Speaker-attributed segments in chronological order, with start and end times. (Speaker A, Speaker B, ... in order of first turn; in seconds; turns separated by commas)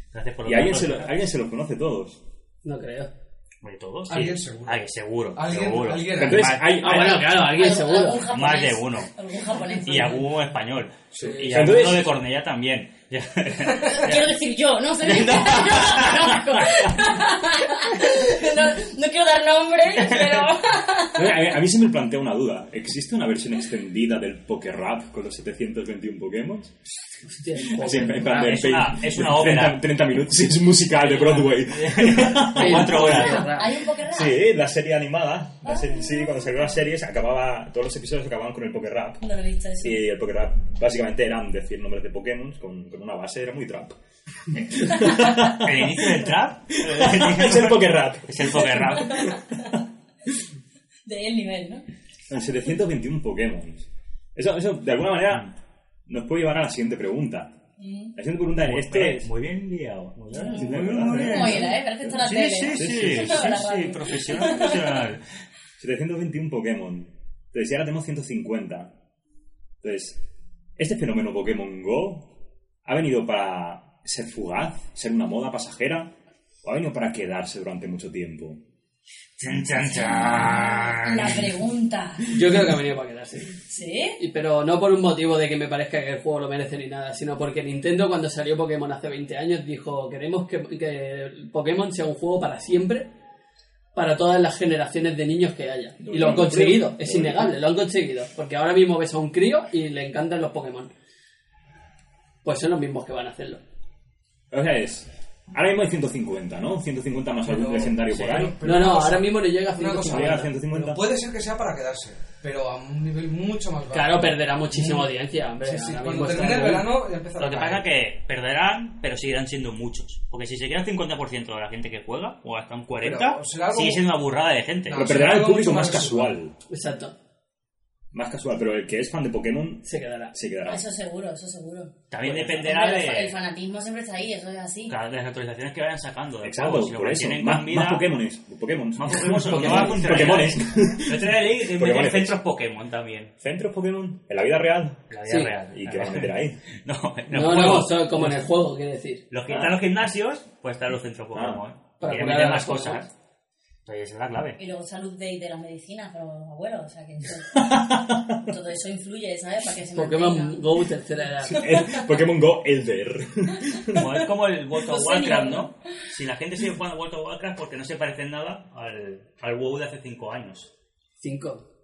Speaker A: 0.1-1.1, Speaker B: 0.4-2.2, Speaker C: 2.6-3.1, Speaker A: 3.6-7.4, Speaker D: 4.1-6.6, Speaker B: 6.1-7.3, Speaker C: 6.8-8.3, Speaker E: 7.3-10.2, Speaker A: 8.3-9.1, Speaker A: 9.8-14.3, Speaker B: 11.2-12.1, Speaker C: 11.2-11.7, Speaker E: 13.7-21.4, Speaker A: 15.0-16.9, Speaker A: 20.0-20.4, Speaker B: 21.1-26.7, Speaker C: 27.2-28.6, Speaker B: 27.7-33.2, Speaker A: 28.3-29.9, Speaker A: 31.0-33.6, Speaker C: 32.4-33.8, Speaker E: 32.9-34.5, Speaker B: 34.0-39.2, Speaker E: 35.6-36.5, Speaker E: 39.2-40.0, Speaker B: 39.8-44.0, Speaker B: 44.6-49.4, Speaker A: 44.7-49.4, Speaker E: 49.1-49.6, Speaker E: 51.0-51.8, Speaker B: 52.3-55.5, Speaker B: 56.1-57.5, Speaker E: 57.8-58.1, Speaker B: 58.1-59.3, Speaker A: 58.5-65.2, Speaker E: 60.3-65.0, Speaker B: 60.5-61.8, Speaker B: 62.7-63.6, Speaker B: 65.8-68.9, Speaker B: 69.8-70.2, Speaker B: 70.8-72.3, Speaker B: 72.8-78.6, Speaker A: 79.4-81.5, Speaker E: 80.0-82.3, Speaker C: 82.3-83.5, Speaker E: 83.7-84.2, Speaker C: 84.2-93.1, Speaker C: 93.9-100.9, Speaker B: 96.0-97.5, Speaker C: 102.4-103.6, Speaker B: 104.5-108.6, Speaker D: 107.4-117.9, Speaker C: 108.6-110.5, Speaker B: 110.0-111.0, Speaker C: 113.9-116.9, Speaker A: 117.4-125.1, Speaker D: 123.0-124.1, Speaker D: 124.9-126.4, Speaker B: 124.9-126.5, Speaker C: 126.7-127.1, Speaker B: 128.1-130.8, Speaker C: 129.8-130.3, Speaker E: 130.7-134.9, Speaker A: 132.1-133.4, Speaker A: 134.9-138.1, Speaker B: 136.4-142.4, Speaker A: 139.0-143.3, Speaker C: 139.7-140.0, Speaker B: 143.4-145.1, Speaker A: 145.1-148.4, Speaker C: 145.2-145.5, Speaker B: 145.7-146.6, Speaker C: 147.3-149.2, Speaker A: 149.3-153.1, Speaker B: 149.5-149.8, Speaker B: 151.3-151.6, Speaker C: 152.0-153.0, Speaker A: 153.8-154.6, Speaker E: 154.6-157.7, Speaker B: 157.5-158.4, Speaker E: 158.4-160.8, Speaker C: 159.9-161.7, Speaker B: 161.5-164.0, Speaker E: 161.5-161.9, Speaker A: 163.9-170.7, Speaker E: 164.8-165.7, Speaker C: 171.2-171.6